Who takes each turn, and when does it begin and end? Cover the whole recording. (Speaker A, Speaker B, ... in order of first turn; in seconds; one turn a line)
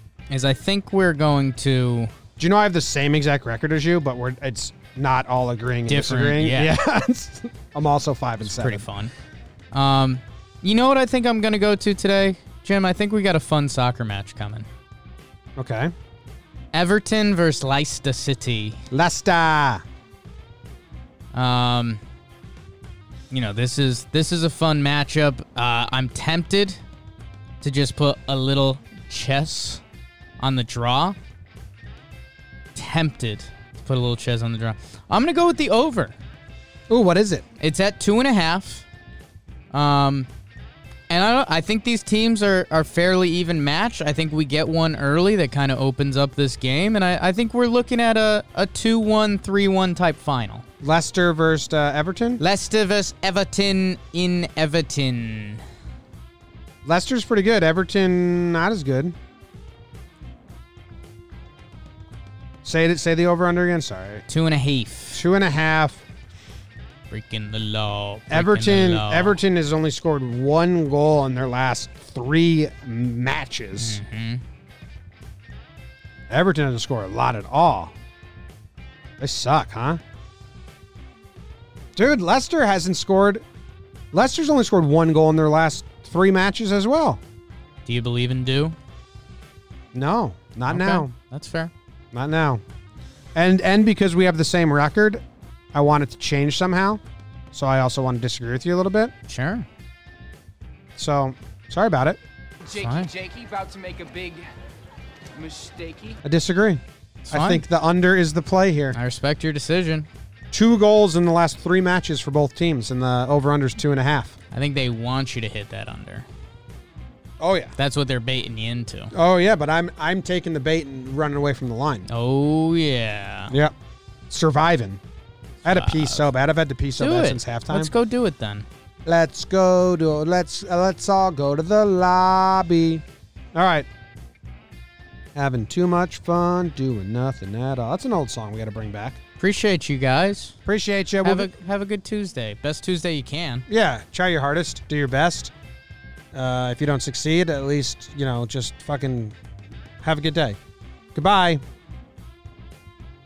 Speaker A: 0.3-2.1
Speaker B: 2.4-8.9
Speaker A: 5.9-6.7
Speaker A: 8.4-9.1
Speaker A: 9.7-14.7
Speaker B: 15.6-15.9
Speaker A: 16.7-18.8
Speaker B: 18.9-19.8
Speaker A: 21.3-22.0
Speaker A: 23.3-26.8
Speaker A: 27.6-29.8
Speaker A: 30.4-31.2
Speaker A: 32.7-36.1
Speaker B: 36.9-37.5
Speaker A: 37.6-38.8
Speaker A: 39.7-40.3
Speaker A: 41.1-50.6
Speaker B: 50.8-52.4
Speaker A: 52.4-55.6
Speaker B: 56.8-59.1
Speaker B: 62.6-64.2
Speaker A: 64.3-65.2
Speaker B: 65.1-66.0
Speaker A: 67.1-69.4
Speaker B: 68.3-74.0
Speaker A: 73.8-74.4
Speaker B: 76.3-77.9
Speaker B: 79.2-80.0
Speaker B: 82.0-83.4
Speaker B: 84.1-87.2
Speaker A: 87.8-88.8
Speaker B: 89.9-91.1
Speaker A: 90.7-91.7
Speaker B: 92.1-92.6
Speaker B: 93.3-97.0
Speaker B: 97.5-99.1
Speaker A: 99.3-99.7
Speaker B: 101.0-102.2
Speaker C: 102.7-104.4
Speaker A: 102.7-103.1
Speaker C: 105.3-106.2
Speaker B: 106.2-109.0
Speaker A: 107.2-107.6
Speaker A: 108.9-110.1
Speaker B: 110.5-114.3
Speaker A: 114.5-116.3
Speaker B: 117.4-117.7
Speaker A: 117.8-119.1
Speaker B: 119.1-122.1
Speaker A: 122.1-123.5
Speaker B: 123.5-123.7
Speaker B: 124.3-125.0
Speaker B: 125.6-127.9
Speaker A: 125.6-126.2
Speaker A: 127.0-128.7
Speaker B: 129.0-133.9
Speaker B: 135.3-139.2
Speaker A: 139.4-140.6
Speaker B: 140.7-141.5
Speaker A: 141.2-143.7
Speaker B: 143.7-145.5
Speaker B: 146.3-149.3
Speaker B: 150.0-150.6
Speaker B: 151.1-151.6